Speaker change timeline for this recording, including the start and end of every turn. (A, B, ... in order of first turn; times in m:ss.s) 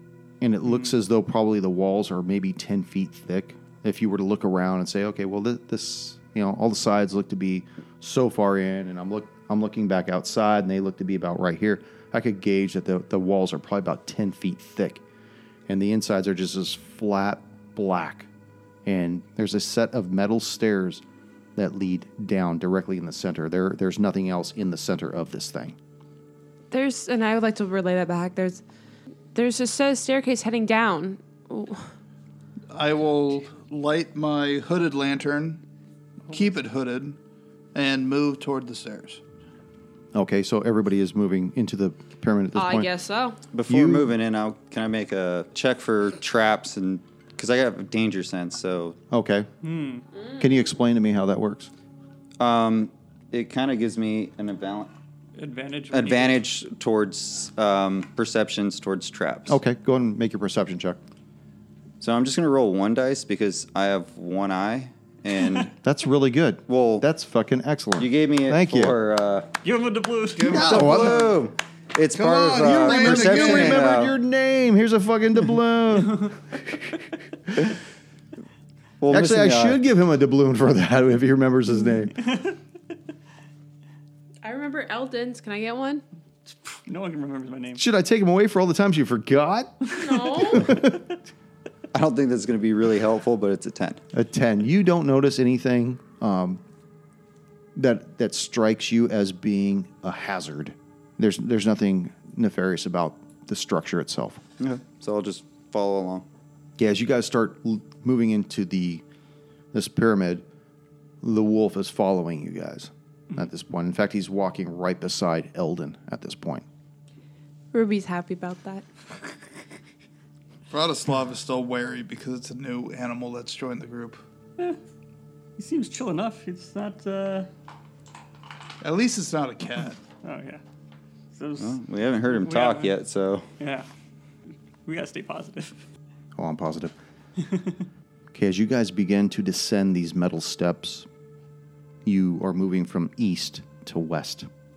0:00.4-0:15.0 A
0:15.7-0:18.3 A
0:18.8-0:21.0 A
0:21.6-0:25.8 A
0:26.7-0:28.6 B
0:29.3-0:31.8 B
0:32.7-0:35.6 C
0:36.3-0:37.2 C
0:37.7-0:39.2 C
0:40.1-0:42.9 A
0:42.5-0:43.4 B
0:43.5-0:49.0 D
0:43.7-0:44.1 A
0:49.1-0:49.5 A
0:49.6-0:50.0 E
0:50.4-0:51.7 A
0:52.4-0:54.9 D
0:55.4-0:56.4 E
0:55.9-0:59.6 D
0:59.5-1:01.0 A
1:02.0-1:05.7 D
1:05.8-1:08.9 A
1:06.7-1:07.0 D
1:08.0-1:09.5 D
1:09.6-1:10.7 E
1:10.3-1:11.3 C
1:10.5-1:11.3 A
1:10.6-1:14.1 D
1:12.1-1:13.9 C
1:12.6-1:16.4 A
1:19.0-1:19.8 D
1:19.1-1:22.1 A
1:24.4-1:26.0 B
1:26.8-1:27.8 E
1:27.8-1:29.8 A
1:29.9-1:30.8 B
1:30.5-1:31.1 A
1:31.9-1:34.0 D
1:34.1-1:36.6 A
1:37.8-1:44.4 A
1:44.6-1:46.2 D
1:46.8-1:49.0 A
1:49.7-1:50.4 A
1:51.2-1:56.6 A
1:57.7-1:58.8 B
2:00.7-2:04.2 C
2:05.6-2:07.5 E
2:08.8-2:10.0 C
2:10.2-2:10.6 E
2:11.3-2:12.9 E
2:11.6-2:13.5 D
2:13.6-2:13.9 E
2:14.8-2:15.8 E
2:16.4-2:16.9 A
2:18.3-2:21.1 A
2:22.0-2:24.5 A